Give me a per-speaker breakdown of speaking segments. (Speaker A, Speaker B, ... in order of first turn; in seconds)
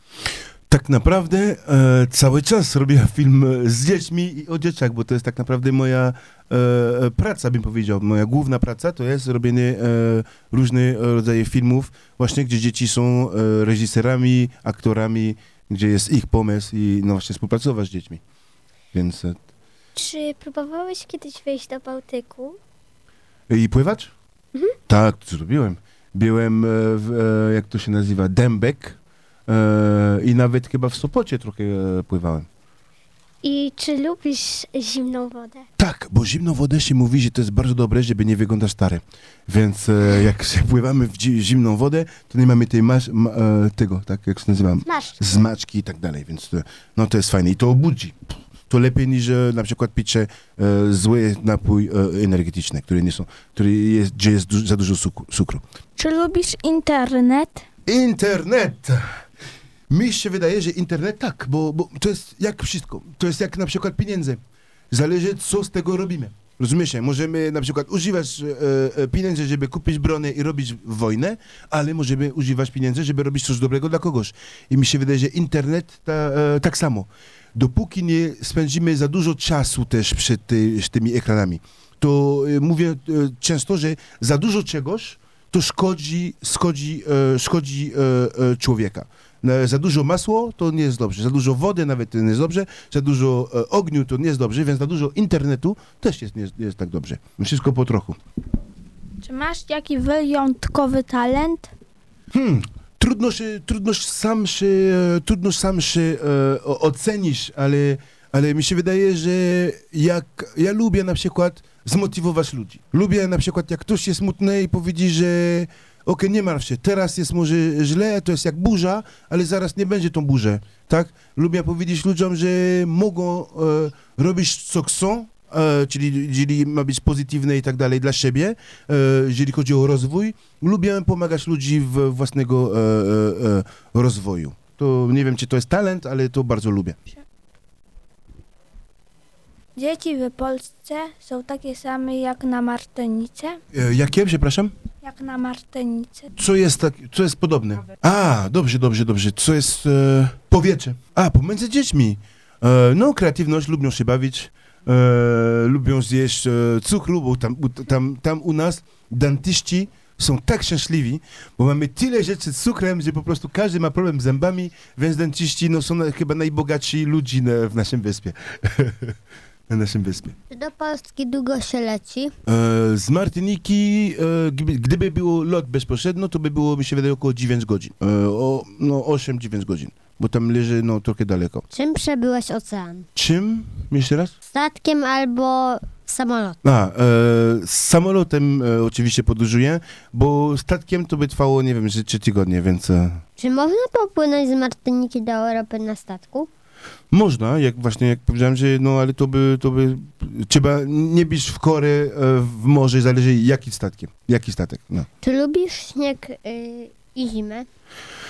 Speaker A: 0.7-18.2, 18.9-19.4, 23.5-24.1, 24.9-29.0, 29.5-32.5, 35.8-48.2, 48.7-55.6, 57.9-59.1, 59.9-64.4, 64.9-98.2, 102.3-137.0, 143.7-144.7, 146.4-169.2, 169.7-170.3, 172.5-181.7, 183.2-184.3, 186.6-193.2, 197.1-205.1
Speaker B: 20.0-22.6, 33.4-35.6, 44.9-45.4
Speaker C: 56.0-57.7, 99.2-101.7, 139.8-143.6, 145.0-146.3
Speaker D: 170.5-172.3, 181.7-183.1, 184.5-186.6, 193.4-196.5, 205.2-207.7